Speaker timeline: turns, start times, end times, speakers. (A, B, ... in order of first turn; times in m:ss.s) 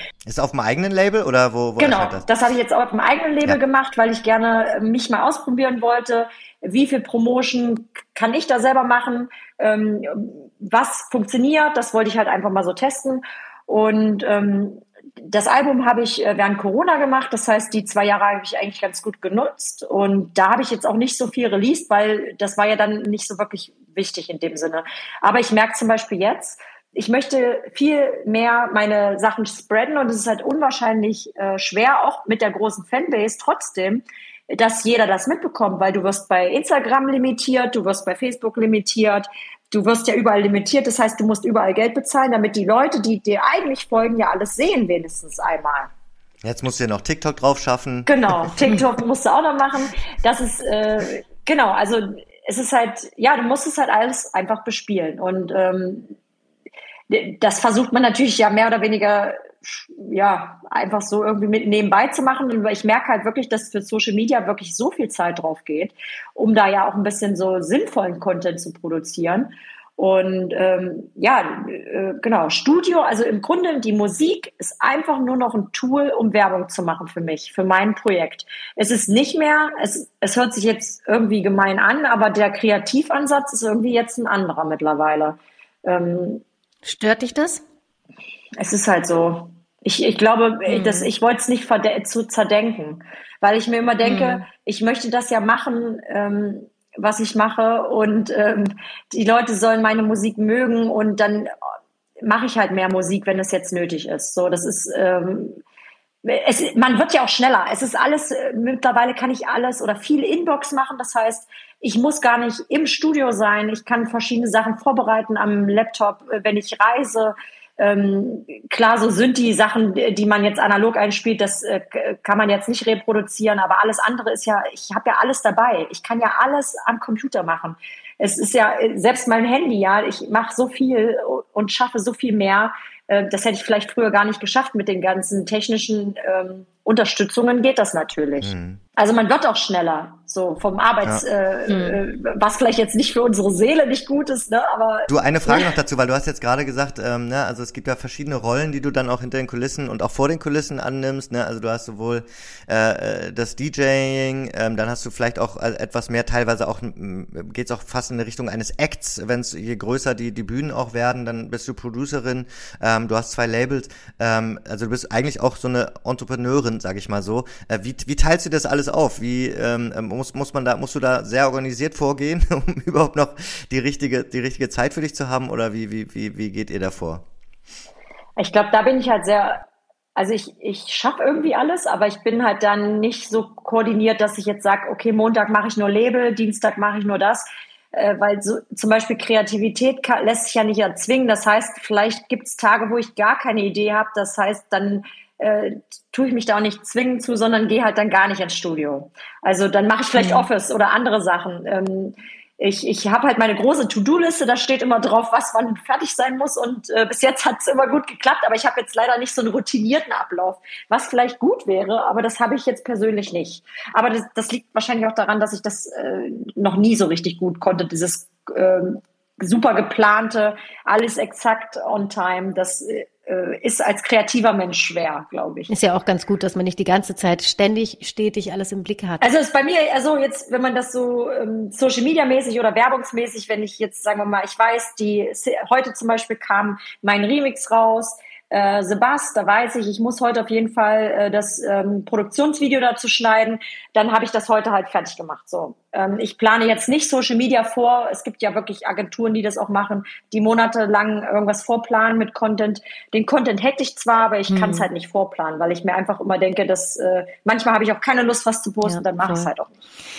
0:00.2-0:02.2 A
0:01.8-0:45.9 B
0:46.4-0:48.6 A
0:48.1-0:56.2 B
0:57.1-1:26.4 B
1:26.8-1:27.6 C
1:28.6-1:41.5 B
1:30.7-1:31.1 C
1:34.0-1:34.4 C
1:42.2-1:45.6 B
1:46.2-2:25.7 B
2:18.4-2:18.8 A
2:21.7-2:22.0 C
2:25.1-2:57.2 A
2:58.4-2:59.6 B
3:00.2-3:45.7 B
3:20.2-3:20.5 C
3:45.7-3:49.3 C
3:49.2-4:19.7 B
4:14.5-4:14.9 C
4:18.8-4:19.5 C